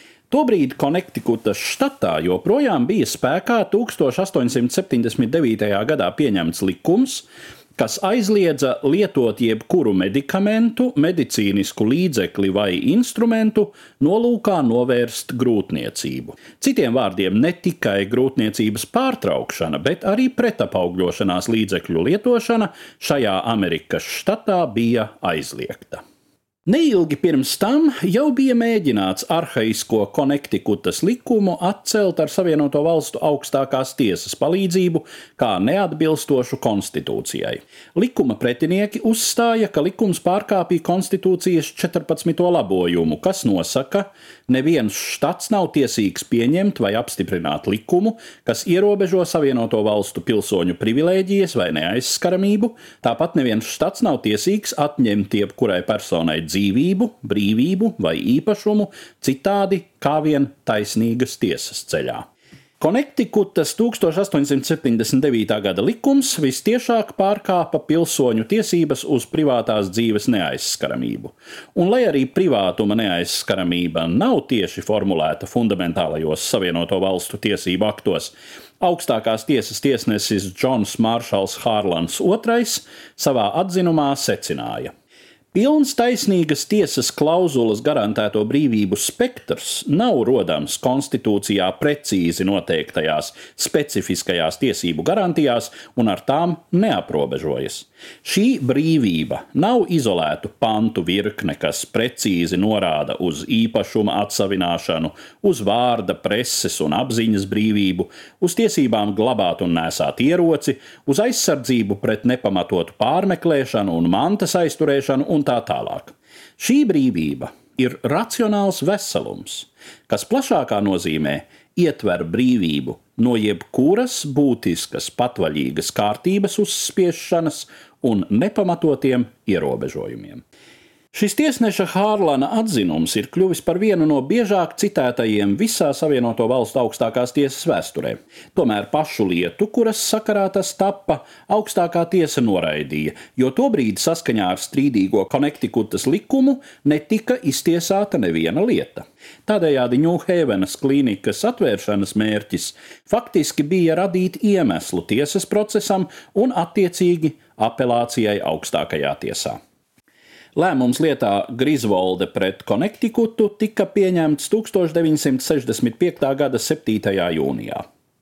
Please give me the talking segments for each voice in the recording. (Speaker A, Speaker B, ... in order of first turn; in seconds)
Speaker A: 0.3-26.0, 26.7-62.2, 62.8-84.9, 85.5-130.4, 131.1-159.6, 160.6-167.8